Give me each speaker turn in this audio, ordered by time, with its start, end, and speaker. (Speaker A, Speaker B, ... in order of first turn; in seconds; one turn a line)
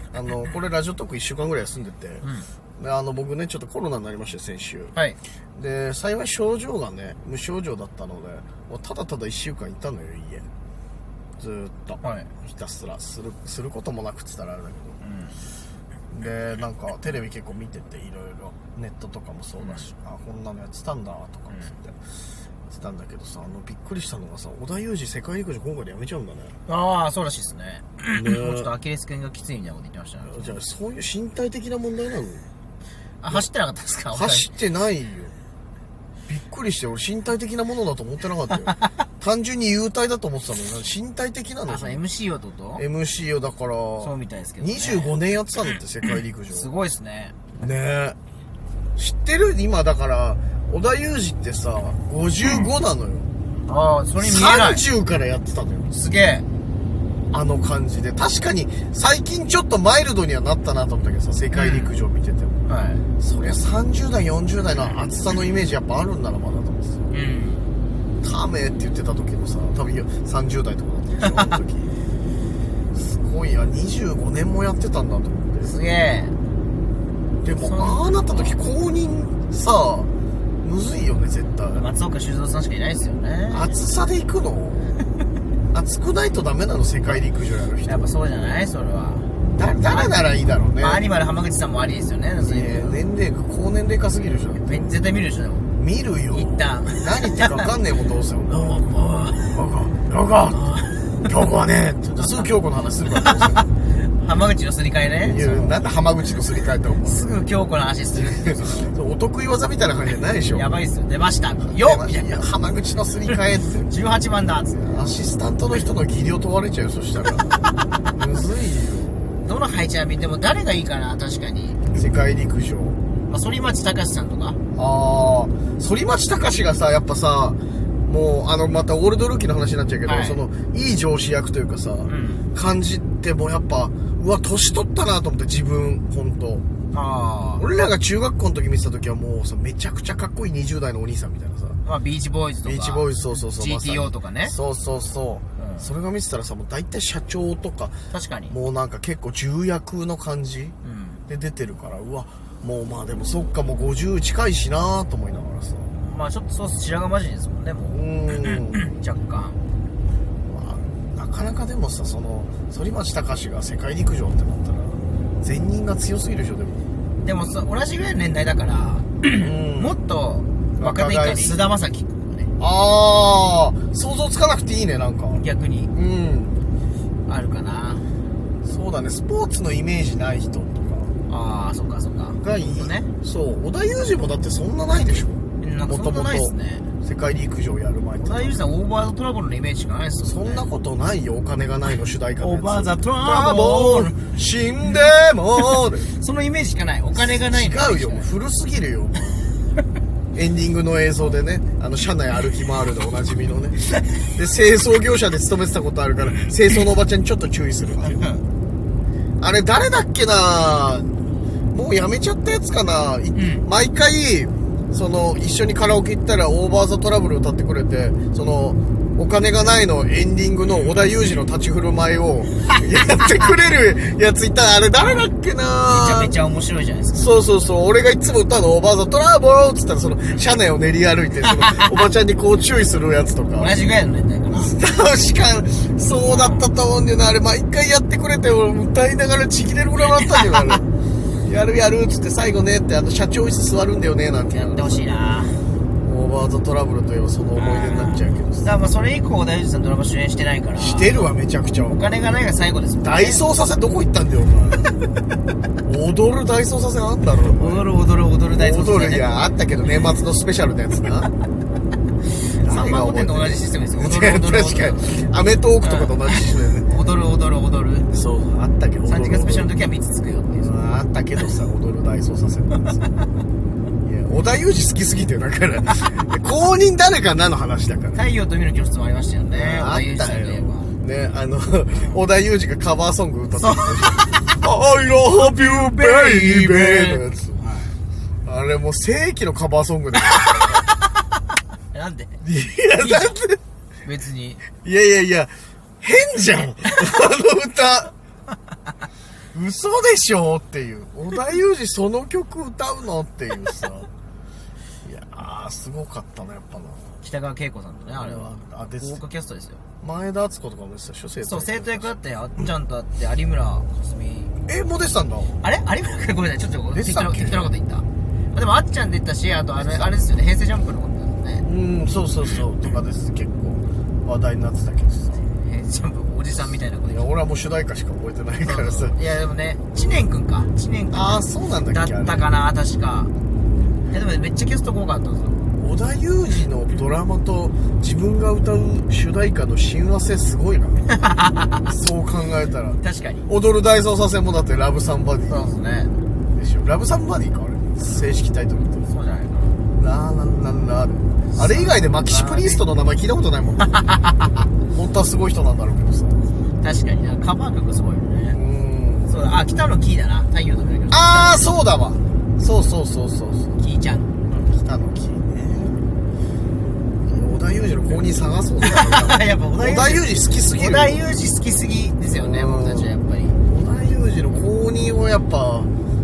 Speaker A: 0.1-2.3
Speaker B: 2.2-2.5
Speaker A: 2.8-5.0
Speaker A: 5.5-10.5
Speaker A: 11.4-15.0
Speaker B: 12.0-12.3
Speaker B: 15.0-15.4
Speaker A: 16.1-22.0
Speaker B: 19.6-19.9
Speaker B: 21.5-21.8
Speaker A: 22.7-26.6
Speaker B: 26.7-30.6
Speaker A: 28.1-28.7
Speaker A: 30.3-32.4
Speaker B: 33.2-34.5
Speaker A: 34.1-35.4
Speaker A: 36.3-42.0
Speaker B: 41.7-42.8
Speaker A: 42.8-46.7
Speaker B: 44.0-45.1
Speaker B: 46.5-47.4
Speaker A: 47.5-48.2
Speaker A: 49.0-53.3
Speaker B: 53.7-54.8
Speaker A: 54.2-56.0
Speaker B: 55.9-56.5
Speaker A: 57.3-62.7
Speaker B: 61.5-62.0
Speaker B: 62.7-63.0
Speaker A: 63.2-67.0
Speaker B: 67.1-67.7
Speaker A: 68.2-71.9
Speaker A: 72.9-75.7
Speaker B: 75.6-76.4
Speaker A: 77.4-80.1
Speaker B: 77.6-78.6
Speaker A: 80.6-81.8
Speaker B: 81.7-83.8
Speaker A: 83.5-85.0
Speaker A: 85.7-88.1
Speaker B: 87.9-89.3
Speaker A: 89.5-91.0
Speaker B: 89.8-90.2
Speaker B: 90.8-93.0
Speaker A: 92.4-94.9
Speaker B: 94.7-95.7
Speaker A: 95.8-103.7
Speaker B: 96.3-97.7
Speaker B: 98.5-99.6
Speaker B: 100.5-101.2
Speaker B: 103.9-105.8
Speaker A: 105.2-107.4
Speaker B: 107.0-109.0
Speaker A: 108.1-110.8
Speaker B: 110.5-112.4
Speaker A: 111.6-113.9
Speaker B: 113.9-114.9
Speaker A: 114.8-119.2
Speaker B: 119.4-121.8
Speaker A: 122.0-123.0
Speaker B: 123.3-124.6
Speaker A: 124.8-136.7
Speaker B: 130.1-130.4
Speaker B: 132.1-132.5
Speaker B: 136.9-137.6
Speaker A: 137.6-141.8
Speaker B: 141.8-144.5
Speaker A: 142.6-148.0
Speaker B: 145.6-145.9
Speaker B: 148.1-148.6
Speaker A: 148.5-150.8
Speaker B: 150.8-151.2
Speaker A: 151.3-155.9
Speaker B: 155.9-159.6
Speaker A: 157.9-158.8
Speaker A: 160.4-166.8
Speaker B: 167.2-172.5
Speaker A: 169.3-169.9
Speaker A: 170.8-171.6
Speaker A: 172.6-176.6
Speaker B: 175.3-175.9
Speaker B: 177.3-178.1
Speaker A: 178.6-181.1
Speaker B: 181.3-183.1
Speaker A: 182.4-188.6
Speaker B: 185.6-186.9
Speaker B: 188.2-190.7
Speaker A: 190.2-196.1
Speaker B: 192.4-194.2
Speaker B: 196.0-198.3
Speaker A: 197.1-199.5
Speaker A: 200.3-208.3
Speaker B: 208.1-208.4
Speaker A: 209.4-211.2
Speaker A: 211.7-226.3
Speaker B: 213.3-213.7
Speaker B: 225.0-225.2
Speaker B: 225.9-227.3
Speaker A: 227.1-233.8
Speaker B: 231.5-232.0
Speaker B: 233.6-234.7
Speaker A: 234.5-240.9
Speaker B: 236.2-236.7
Speaker B: 240.3-240.6
Speaker A: 241.4-245.1
Speaker B: 244.5-245.7
Speaker A: 246.0-248.7
Speaker B: 247.6-251.3
Speaker A: 250.8-252.2
Speaker B: 251.9-253.4
Speaker A: 253.0-254.9
Speaker A: 255.8-257.9
Speaker B: 257.4-259.4
Speaker A: 258.5-261.3
Speaker B: 262.5-265.3
Speaker A: 262.6-266.9
Speaker B: 265.8-268.1
Speaker A: 268.1-269.7
Speaker B: 269.1-270.7
Speaker A: 270.5-273.1
Speaker A: 274.0-278.2
Speaker B: 278.1-280.9
Speaker A: 279.5-287.7
Speaker B: 281.9-282.2
Speaker B: 283.6-284.4
Speaker B: 285.8-288.0
Speaker A: 288.4-290.9
Speaker B: 291.9-292.4
Speaker A: 292.4-293.6
Speaker B: 293.0-293.4
Speaker B: 294.1-294.6
Speaker A: 294.8-298.1
Speaker A: 299.5-304.1
Speaker A: 305.0-307.2
Speaker B: 307.2-309.8
Speaker A: 308.1-309.2
Speaker A: 310.0-312.1
Speaker B: 311.4-314.5
Speaker A: 314.6-315.6
Speaker B: 315.6-321.6
Speaker A: 316.9-317.7
Speaker A: 319.8-320.2
Speaker A: 321.6-325.5
Speaker B: 325.4-327.3
Speaker A: 327.1-329.2
Speaker B: 328.6-333.3
Speaker A: 329.9-330.2
Speaker A: 331.1-332.5
Speaker A: 333.6-334.0
Speaker B: 334.1-335.7
Speaker A: 335.8-341.1
Speaker B: 341.1-341.9
Speaker A: 341.9-345.8
Speaker B: 343.0-343.5
Speaker B: 345.5-346.2
Speaker A: 346.5-349.1
Speaker B: 349.1-349.9
Speaker A: 350.0-354.0
Speaker B: 351.5-352.8
Speaker B: 353.9-354.5
Speaker A: 354.9-356.4
Speaker B: 356.8-358.6
Speaker A: 358.5-359.3
Speaker B: 359.3-361.7
Speaker A: 361.1-363.8
Speaker B: 363.8-364.3
Speaker A: 364.5-366.1
Speaker A: 367.2-371.2
Speaker B: 368.8-373.6
Speaker A: 372.3-375.9